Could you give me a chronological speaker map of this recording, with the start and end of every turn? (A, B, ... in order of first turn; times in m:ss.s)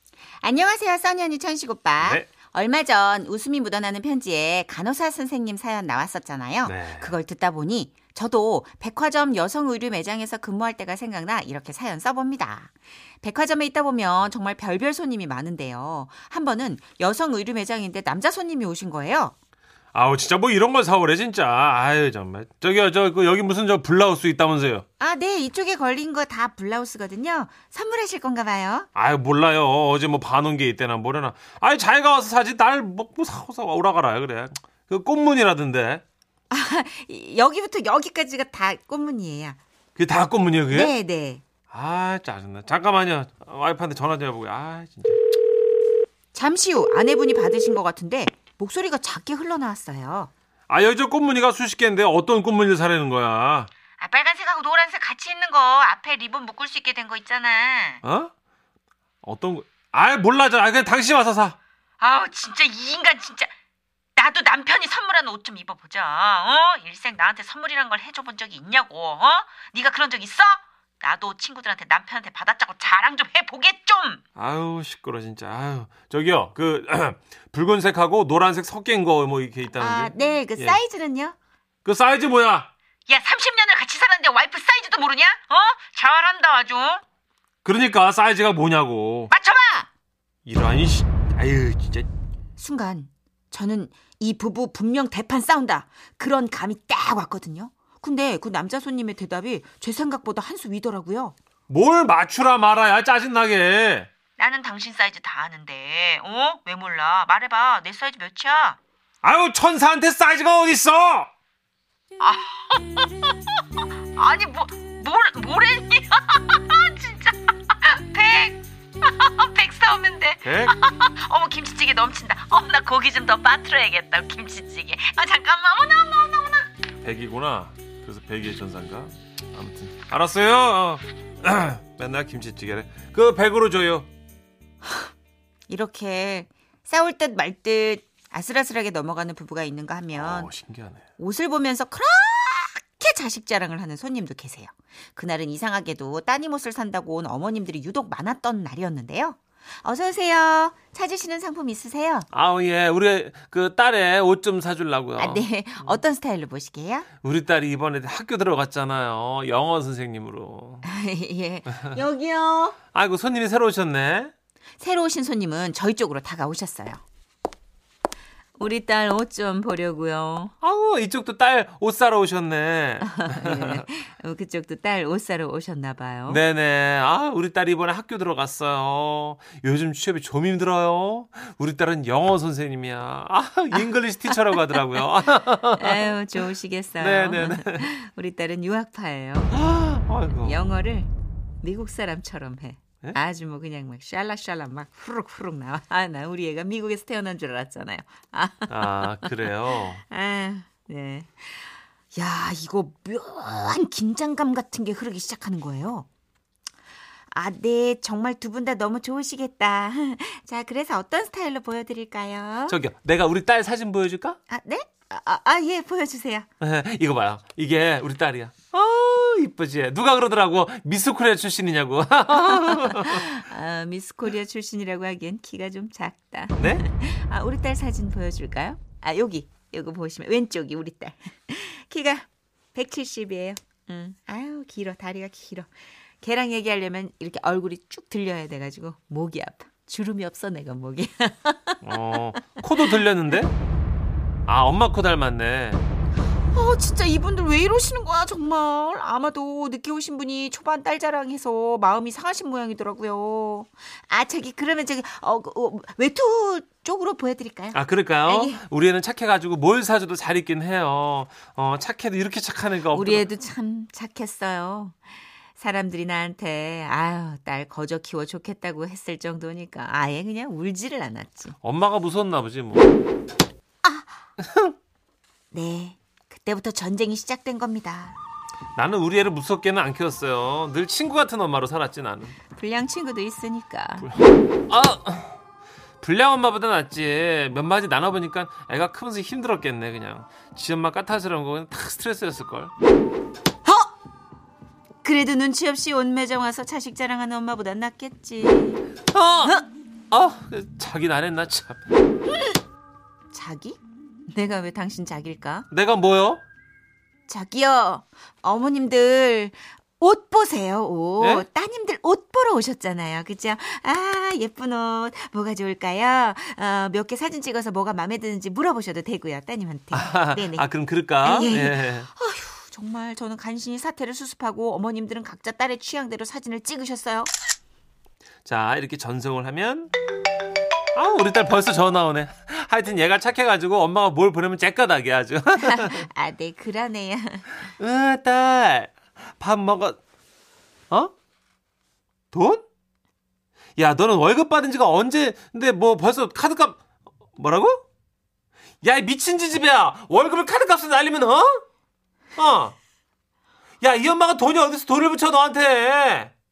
0:00.4-0:19.3 A
0:02.0-0:02.3 B
0:06.6-0:07.2 B
0:19.9-0:24.8 B
0:25.0-0:28.9 A
0:28.9-0:36.0 B
0:36.5-0:39.6 A
0:40.0-0:40.9 B
0:40.7-0:41.4 A
0:41.7-0:45.2 B
0:46.3-0:50.3 A
0:50.7-0:53.7 B
0:54.0-0:58.0 A
0:58.0-0:58.3 B
0:59.2-1:01.6 B
1:02.0-1:03.5 A
1:04.2-1:14.2 A
1:14.4-1:20.8 B
1:19.7-1:21.4 A
1:21.8-1:22.7 B
1:23.1-1:27.0 A
1:27.6-1:29.3 B
1:29.3-1:29.9 A
1:30.4-1:32.1 B
1:32.6-1:41.4 A
1:41.7-1:44.1 B
1:44.4-1:48.8 A
1:49.2-1:51.3 B
1:52.2-1:53.3 A
1:54.1-2:06.7 A
2:00.4-2:00.7 B
2:07.0-2:14.1 B
2:15.7-2:20.5 A
2:20.1-2:21.0 B
2:21.2-2:32.3 A
2:32.3-2:36.0 B
2:35.2-2:37.1 A
2:37.2-2:40.8 B
2:40.8-2:42.8 A
2:42.9-2:44.3 B
2:44.8-2:47.0 A
2:48.6-2:50.5 A
2:50.6-2:53.8 B
2:53.0-2:56.4 A
2:56.3-3:06.1 B
3:03.7-3:04.8 A
3:05.7-3:09.6 A
3:07.0-3:07.9 B
3:09.5-3:10.7 B
3:10.4-3:11.1 A
3:11.6-3:26.1 A
3:18.7-3:20.0 B
3:27.3-3:32.8 A
3:32.7-3:34.4 B
3:34.5-3:36.5 A
3:36.6-3:43.4 B
3:42.5-4:03.0 A
3:46.6-3:46.8 B
4:01.8-4:03.5 B
4:04.4-4:05.8 B
4:06.4-4:18.6 A
4:17.7-4:23.3 B
4:22.9-4:25.0 A
4:25.5-4:31.6 A
4:31.6-4:33.0 B
4:33.8-4:34.2 A
4:34.4-4:34.8 B
4:35.5-4:38.2 A
4:38.8-4:42.4 B
4:42.5-4:44.1 A
4:44.0-4:45.4 B
4:46.0-4:52.7 B
4:53.6-4:53.9 A
4:55.0-4:58.8 A
4:59.1-4:59.6 B
5:00.1-5:01.8 B
5:03.3-5:05.7 A
5:05.7-5:06.4 B
5:07.3-5:20.7 A
5:11.2-5:11.5 B
5:19.9-5:22.1 B
5:21.2-5:27.3 A
5:28.4-5:29.9 B
5:30.9-5:36.1 B
5:35.6-5:37.6 A
5:37.6-5:40.0 B
5:42.3-5:42.6 B
5:43.8-5:46.8 B
5:47.4-5:47.8 B
5:48.8-5:51.6 B
5:52.4-5:52.7 B
5:53.8-5:56.3 B